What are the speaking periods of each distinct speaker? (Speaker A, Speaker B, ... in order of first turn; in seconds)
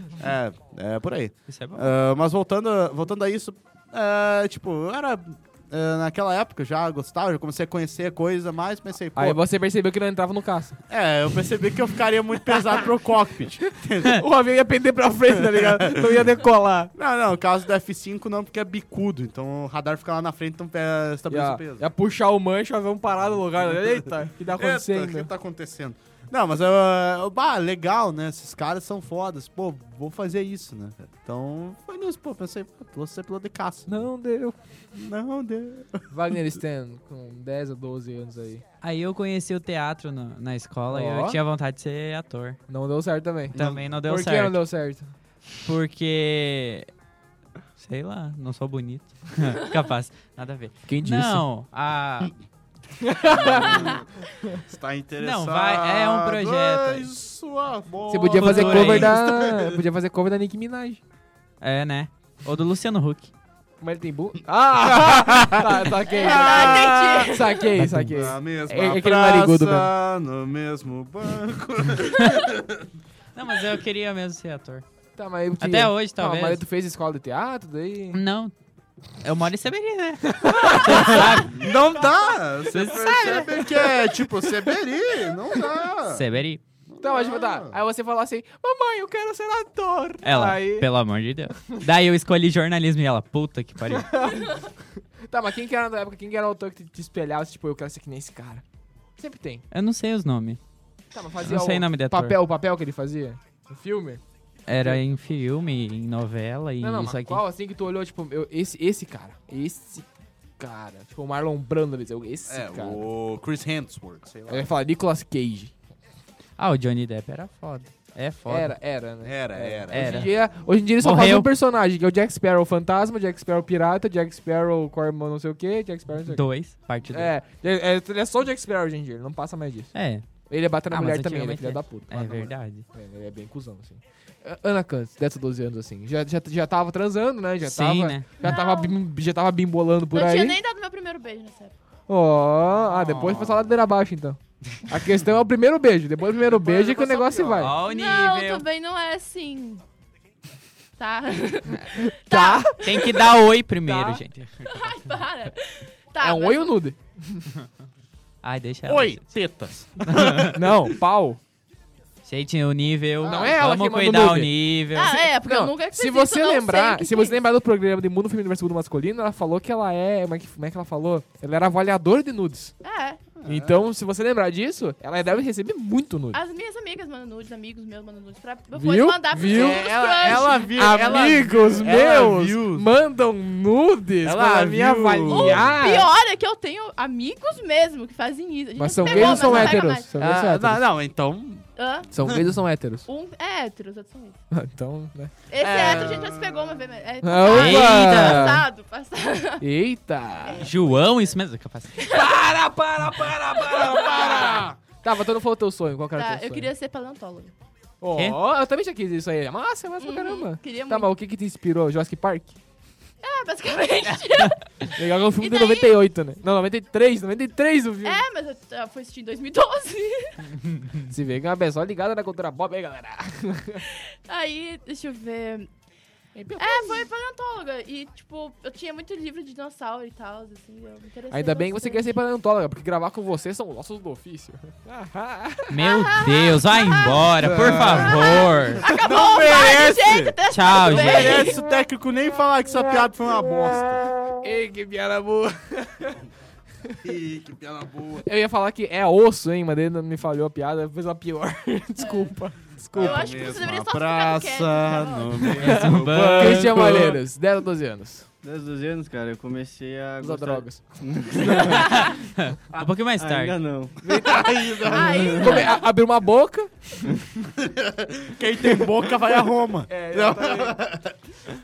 Speaker A: 0.2-9.4, 10.9-14.2, 15.4-16.2, 16.9-21.9, 23.6-34.1, 34.9-36.1, 43.5-43.8, 53.2-54.0, 54.6-59.8, 64.8-67.2, 67.8-72.9, 80.9-86.2, 86.9-87.8, 112.5-114.7, 119.2-120.3, 143.2-143.7, 158.8-160.9, 163.2-163.5, 173.4-173.8, 179.4-182.9, 184.2-185.8, 189.0-191.7, 195.6-196.8, 237.4-244.1, 247.0-248.2, 252.9-257.1, 264.2-265.3, 267.6-271.2
Speaker B: 1.5-1.9, 38.8-42.6, 43.5-44.6, 45.6-46.9, 47.8-52.3, 55.2-57.1, 58.4-59.1, 61.6-63.3, 73.3-74.8, 75.6-76.6, 78.1-78.5, 79.2-81.8, 82.7-83.5, 86.1-86.6, 90.2-94.1, 99.7-100.6, 101.4-102.4, 104.7-107.4, 116.6-118.7, 119.9-120.3, 121.0-121.5, 126.3-127.3, 129.9-130.3, 130.9-132.8, 137.6-138.5, 142.9-143.4, 147.6-148.6, 152.8-154.9, 158.4-159.2, 160.1-160.5, 162.2-165.3, 197.4-198.6, 200.6-202.0, 235.7-238.8, 240.5-241.5, 255.6-257.2, 261.7-263.6
Speaker C: 9.1-10.8, 14.0-16.9, 21.3-25.3, 33.9-34.6, 36.1-38.6, 40.9-41.4, 42.7-45.1, 50.9-51.4, 53.0-53.8, 58.1-61.0, 63.8-69.9, 75.2-78.2, 80.3-81.4, 82.9-84.5, 87.0-90.9, 93.9-94.6, 95.3-98.6, 99.2-99.6, 101.1-104.2, 106.8-110.0, 110.6-113.0, 114.5-115.7, 118.5-126.4, 127.1-129.9, 130.5-140.6, 142.1-147.7, 152.2-152.8, 156.2-157.5, 160.5-161.4, 163.2-164.5, 165.3-172.7, 173.4-176.4, 178.7-186.1, 188.7-190.8, 192.1-193.1, 194.5-195.3, 197.2-198.6, 199.6-200.6, 202.1-206.7, 208.0-212.6, 214.9-218.2, 221.1-223.8, 226.3-227.0, 231.3-235.7, 244.4-246.2, 248.2-253.3, 255.6-258.3, 260.2-260.8, 264.0-264.5, 265.0-267.0, 269.9-270.8
Speaker D: 53.7-54.0, 66.1-67.7, 94.3-94.6, 138.4-139.0, 140.1-141.7, 146.6-149.8, 151.0-153.3, 153.9-156.8, 164.9-167.4, 172.8-173.2, 176.3-181.4, 185.3-190.1, 191.8-192.1, 193.0-194.4, 195.5-199.6, 200.4-201.0, 202.0-202.3, 203.7-204.6, 206.1-207.5, 210.0-211.1, 213.2-216.0, 218.0-220.4, 223.9-225.7, 226.6-232.2, 235.8-237.3, 237.8-241.6, 252.0-252.3, 252.9-255.7, 261.6-262.1, 264.9-265.9
Speaker E: 258.4-261.9, 263.2-265.6